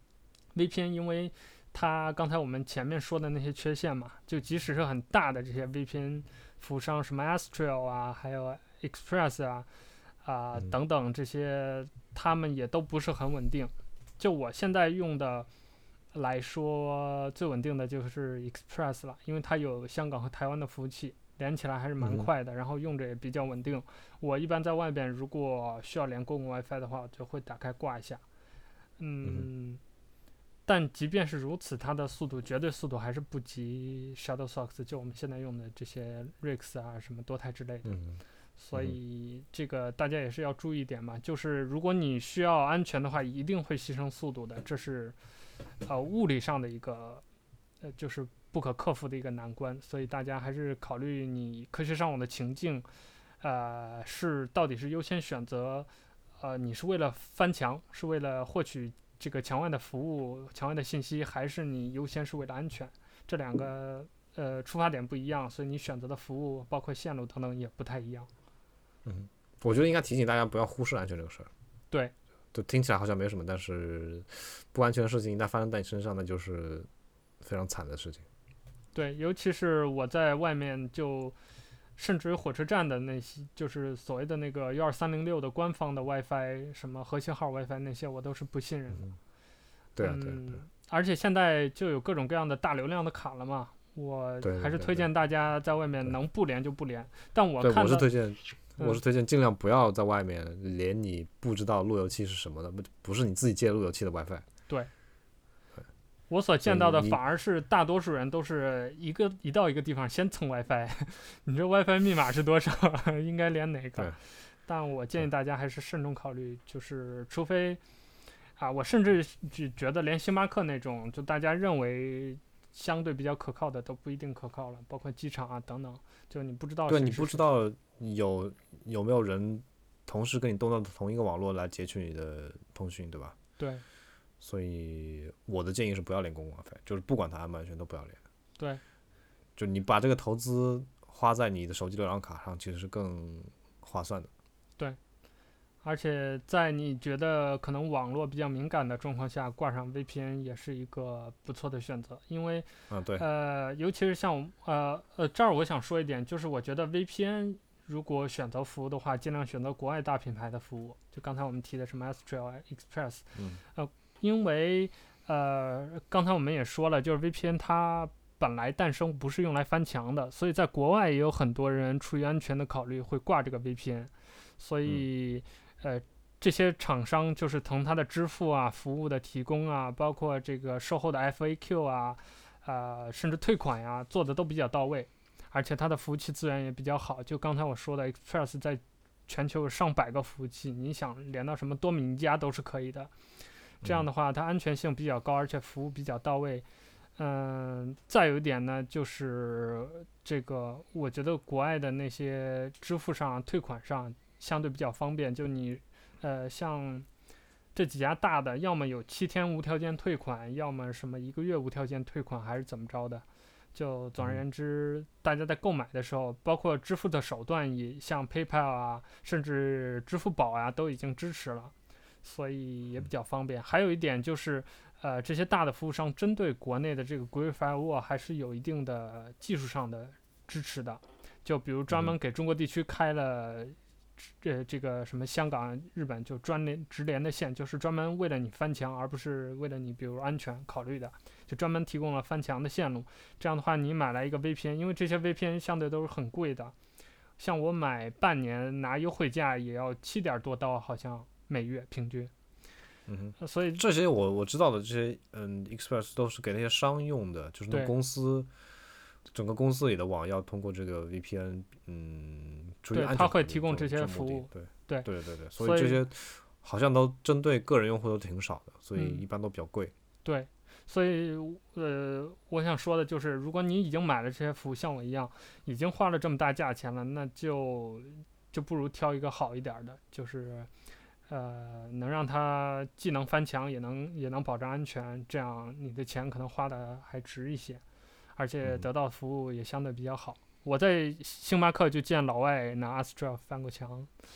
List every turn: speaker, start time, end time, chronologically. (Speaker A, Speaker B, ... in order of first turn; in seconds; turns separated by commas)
Speaker A: 0.5-9.7, Speaker A: 10.2-15.5, Speaker A: 16.1-28.2, Speaker B: 22.0-22.3, Speaker A: 29.0-29.8, Speaker A: 30.6-37.9, Speaker B: 37.8-38.2, Speaker A: 38.6-45.1, Speaker A: 45.8-47.2, Speaker A: 47.8-52.9, Speaker A: 53.4-68.3, Speaker B: 69.0-71.5, Speaker B: 72.5-76.9, Speaker B: 77.4-78.2, Speaker A: 78.9-81.3, Speaker A: 82.0-89.1, Speaker B: 90.0-90.6, Speaker A: 90.0-98.1, Speaker B: 94.4-95.1, Speaker B: 97.6-104.5, Speaker A: 106.3-117.8, Speaker B: 106.6-107.2, Speaker A: 118.6-127.4, Speaker B: 126.9-133.3, Speaker A: 133.6-133.8, Speaker B: 134.4-138.2, Speaker B: 139.6-144.3, Speaker A: 145.8-193.1, Speaker B: 152.9-153.2, Speaker B: 163.3-163.6, Speaker A: 193.8-196.6, Speaker B: 193.8-194.1, Speaker A: 197.2-207.1, Speaker A: 207.7-246.7, Speaker A: 247.4-252.3, Speaker B: 253.1-258.5, Speaker A: 253.4-253.8, Speaker B: 259.2-269.9, Speaker A: 262.9-265.1, Speaker A: 265.6-266.0, Speaker A: 268.9-269.2, Speaker A: 270.2-280.7, Speaker A: 281.3-287.8, Speaker A: 288.4-294.1